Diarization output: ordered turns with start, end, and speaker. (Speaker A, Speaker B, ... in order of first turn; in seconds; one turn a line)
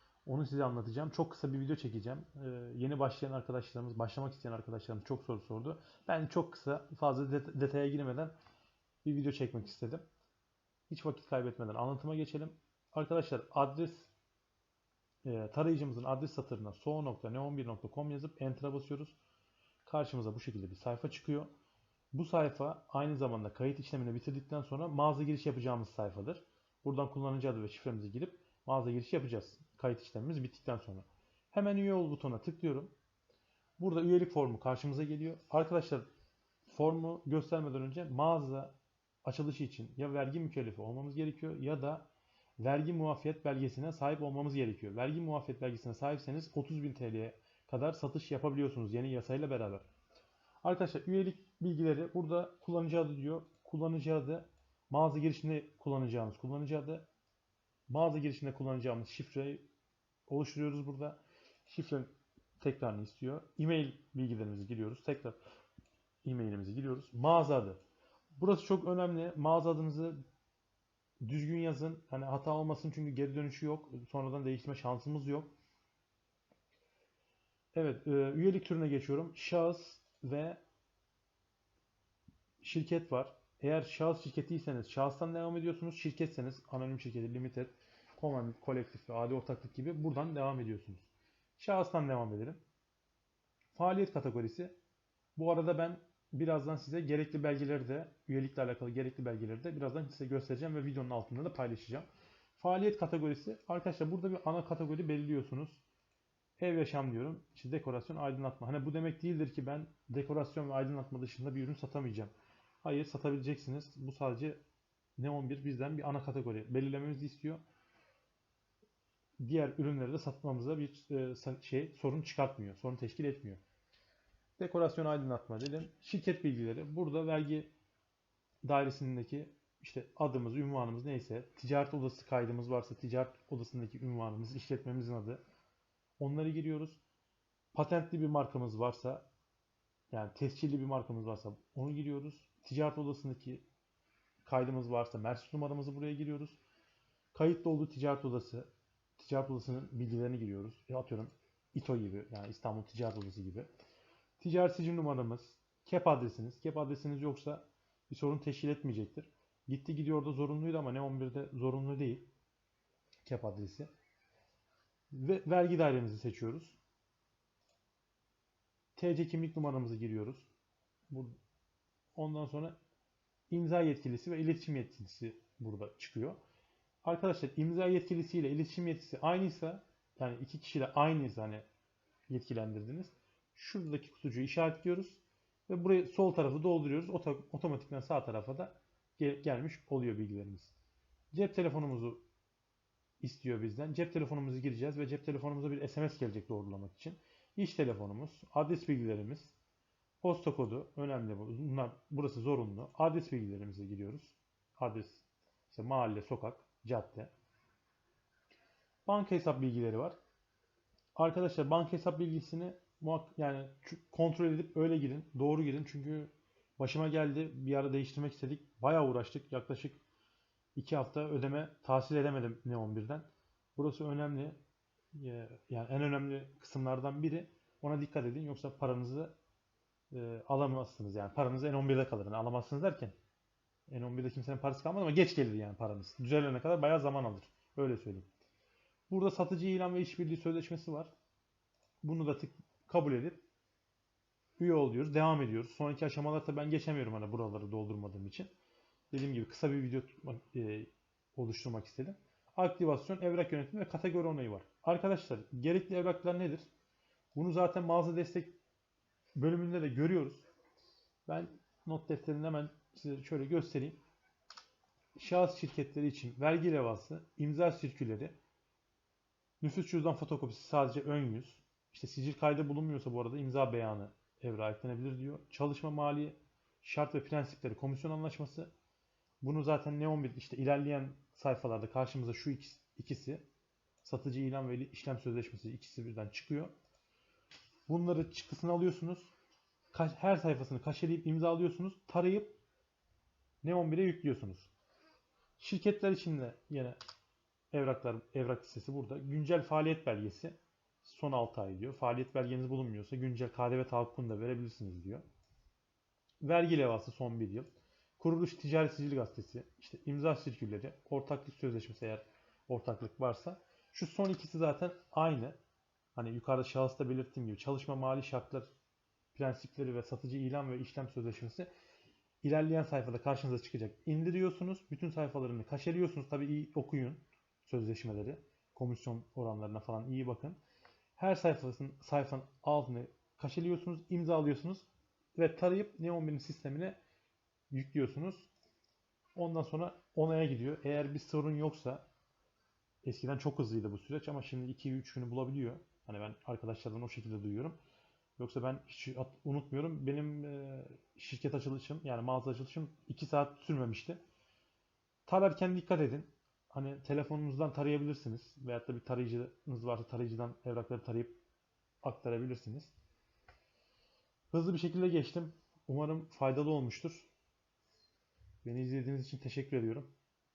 Speaker A: 0.2-8.3
Speaker A: 9.0-10.0
Speaker A: 10.9-14.1
Speaker A: 15.2-19.1
Speaker A: 19.8-21.5
Speaker A: 22.1-32.9
Speaker A: 33.8-36.1
Speaker A: 36.7-42.1
Speaker A: 42.6-49.9
Speaker A: 50.6-57.1
Speaker A: 57.9-59.6
Speaker A: 60.3-65.4
Speaker A: 66.2-67.8
Speaker A: 68.3-70.2
Speaker A: 71.2-75.5
Speaker A: 77.7-80.6
Speaker A: 82.6-92.6
Speaker A: 93.7-94.7
Speaker A: 95.3-105.8
Speaker A: 106.6-112.3
Speaker A: 112.8-114.6
Speaker A: 115.2-117.6
Speaker A: 119.4-123.6
Speaker A: 124.6-127.7
Speaker A: 128.6-135.4
Speaker A: 136.2-137.0
Speaker A: 137.7-139.3
Speaker A: 140.1-143.6
Speaker A: 144.4-146.6
Speaker A: 147.3-153.7
Speaker A: 154.4-162.2
Speaker A: 163.2-163.9
Speaker A: 165.1-166.8
Speaker A: 168.9-170.5
Speaker A: 171.1-171.4
Speaker A: 172.1-172.8
Speaker A: 173.5-176.4
Speaker A: 177.0-181.6
Speaker A: 182.3-190.7
Speaker A: 191.3-192.2
Speaker A: 193.2-199.5
Speaker A: 200.2-207.3
Speaker A: 209.1-210.2
Speaker A: 211.2-220.0
Speaker A: 220.7-224.6
Speaker A: 225.1-229.3
Speaker A: 230.1-233.1
Speaker A: 233.9-238.3
Speaker A: 239.1-241.1
Speaker A: 242.0-243.4
Speaker A: 244.6-248.5
Speaker A: 249.1-256.6
Speaker A: 257.3-258.5
Speaker A: 259.4-260.4
Speaker A: 261.3-264.0
Speaker A: 265.1-268.3
Speaker A: 269.6-278.7
Speaker A: 279.4-283.4
Speaker A: 284.0-286.7
Speaker A: 287.9-289.3
Speaker A: 289.9-292.5
Speaker A: 293.6-294.7
Speaker A: 295.6-297.0
Speaker A: 297.7-305.2
Speaker A: 306.4-315.6
Speaker A: 316.1-318.7
Speaker A: 319.3-321.7
Speaker A: 322.4-330.6
Speaker A: 331.1-336.9
Speaker A: 337.7-338.5
Speaker A: 339.3-342.0
Speaker A: 343.0-347.8
Speaker A: 348.4-354.2
Speaker A: 355.2-361.4
Speaker A: 362.0-362.9
Speaker A: 364.5-367.3
Speaker A: 368.6-370.1